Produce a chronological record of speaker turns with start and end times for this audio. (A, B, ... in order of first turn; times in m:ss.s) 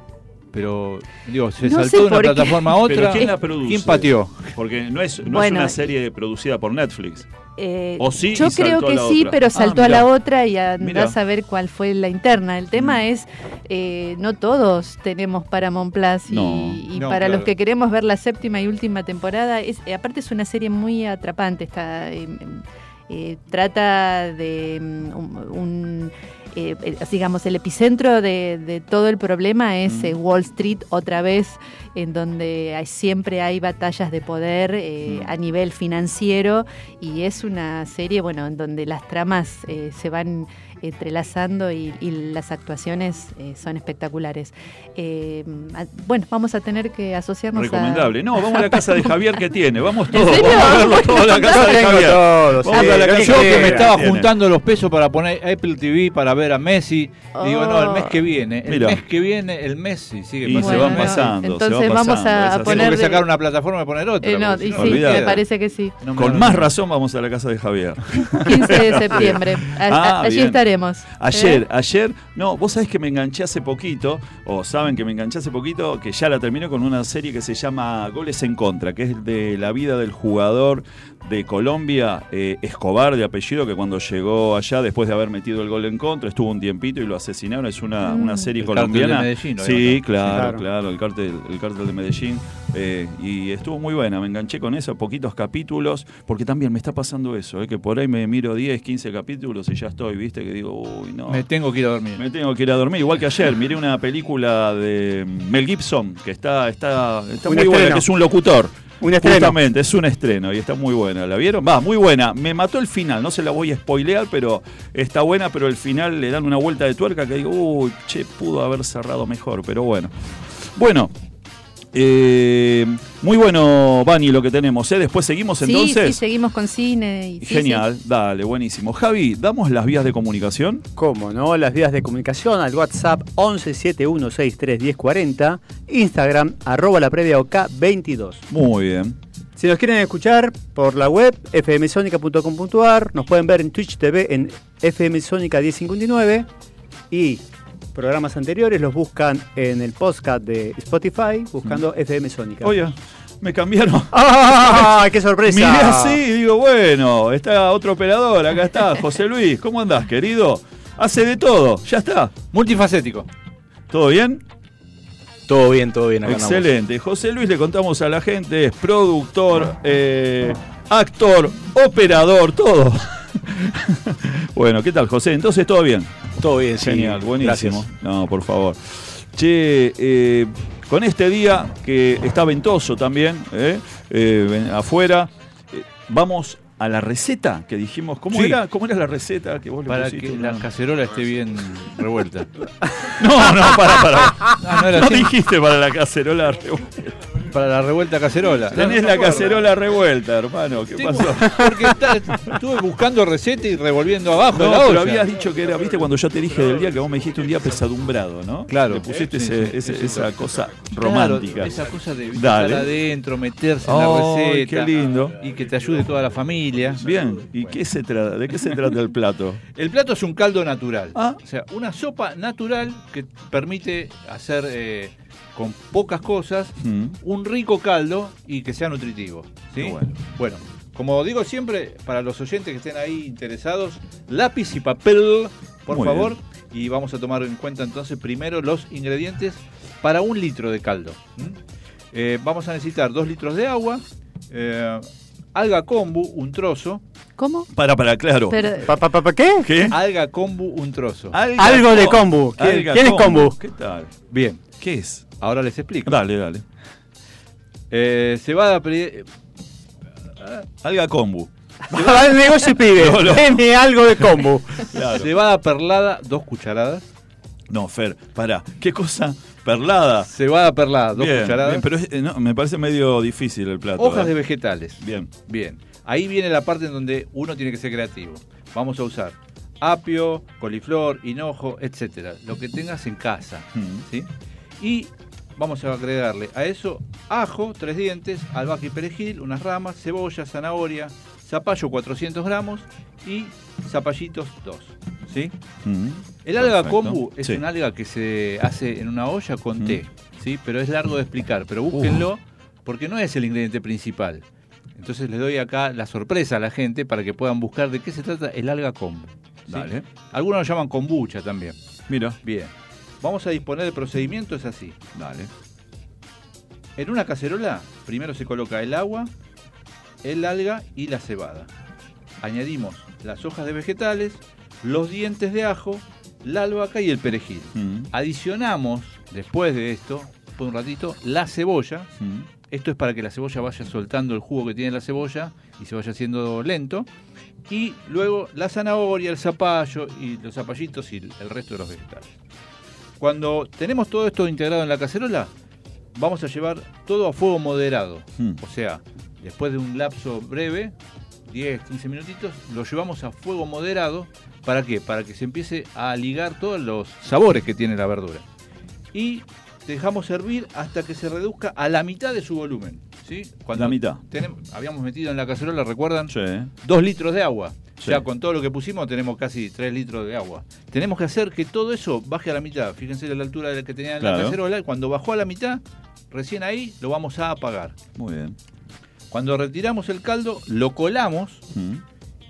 0:00.5-0:04.5 A
0:01.6-0:03.3 B
0:02.8-0:07.3 C
0:05.3-0:05.8 B
0:07.6-0:48.8 B
0:08.0-0:10.1 C
0:10.8-0:11.2 C
0:12.8-0:13.0 C
0:16.3-0:16.8 C
0:16.9-0:17.5 A
0:29.9-0:30.1 C
0:35.1-0:35.3 C
0:47.5-0:54.3 C
0:50.1-0:52.0 B
0:51.5-0:53.9 D
0:52.7-1:01.3 A
0:57.4-0:58.2 B
0:58.6-0:59.0 C
1:00.4-1:03.0 C
1:00.6-1:03.2 B
1:02.6-1:05.4 A
1:04.2-1:06.0 B
1:04.7-1:05.4 C
1:06.0-1:06.7 A
1:06.1-1:41.4 C
1:08.4-1:11.6 B
1:28.0-1:28.5 B
1:28.6-1:30.4 A
1:30.2-1:30.6 D
1:41.3-1:42.2 A
1:42.2-2:01.1 C
1:47.4-1:48.1 D
1:49.0-1:49.6 D
2:01.9-2:06.2 C
2:05.6-2:07.8 B
2:07.4-2:10.8 C
2:11.0-2:18.4 D
2:18.5-2:19.2 C
2:19.6-2:26.5 D
2:27.1-2:32.8 D
2:32.6-2:42.3 C
2:34.1-2:36.2 D
2:42.5-2:43.3 A
2:43.9-2:44.4 C
2:45.5-2:46.7 E
2:46.2-2:56.1 C
2:56.4-2:57.8 E
2:56.8-3:10.7 C
3:08.3-3:08.6 A
3:09.9-3:12.5 A
3:13.1-3:17.2 C
3:14.6-3:15.3 A
3:17.4-3:19.6 A
3:18.6-3:21.7 C
3:20.9-3:25.3 A
3:24.5-3:31.8 C
3:28.7-3:30.4 A
3:31.0-3:37.0 A
3:32.3-3:32.9 C
3:33.8-3:35.4 C
3:36.9-3:39.6 C
3:39.8-4:01.6 A
3:46.8-3:47.2 C
3:49.8-3:50.1 C
3:55.9-3:56.4 C
4:02.1-4:07.0 A
4:07.4-4:07.7 B
4:07.7-4:08.9 C
4:08.5-4:08.9 B
4:08.8-4:09.7 D
4:09.6-4:10.0 C
4:09.9-4:11.4 A
4:11.3-4:14.1 C
4:11.6-4:13.6 D
4:14.3-4:14.6 A
4:14.8-4:15.2 C
4:15.4-4:16.2 A
4:16.1-4:16.6 C
4:17.9-4:19.3 A
4:20.8-4:23.6 C
4:21.9-4:24.9 D
4:24.2-4:25.3 C
4:25.1-4:27.0 A
4:27.7-4:30.3 C
4:30.3-4:31.8 A
4:31.1-4:34.3 C
4:34.0-4:44.3 A
4:35.0-4:35.3 C
4:43.8-4:44.1 C
4:44.8-4:55.5 A
4:55.8-4:57.6 C
4:56.4-5:04.4 A
5:01.9-5:02.3 C
5:05.0-5:11.8 A
5:09.7-5:10.0 C
5:12.1-5:12.4 C
5:12.4-5:15.0 A
5:15.2-5:15.5 C
5:17.0-5:19.3 A
5:20.2-5:21.7 A
5:22.4-5:32.1 A
5:27.8-5:28.1 C
5:32.2-5:32.5 C
5:32.7-5:37.1 A
5:37.7-5:42.3 A
5:43.2-5:45.5 A
5:46.1-5:50.9 A
5:51.5-5:58.4 A
5:59.1-6:18.0 A
6:03.7-6:04.2 C
6:06.3-6:06.7 C
6:14.2-6:14.6 C
6:18.2-6:18.6 C
6:19.3-6:21.6 A
6:21.7-6:22.0 C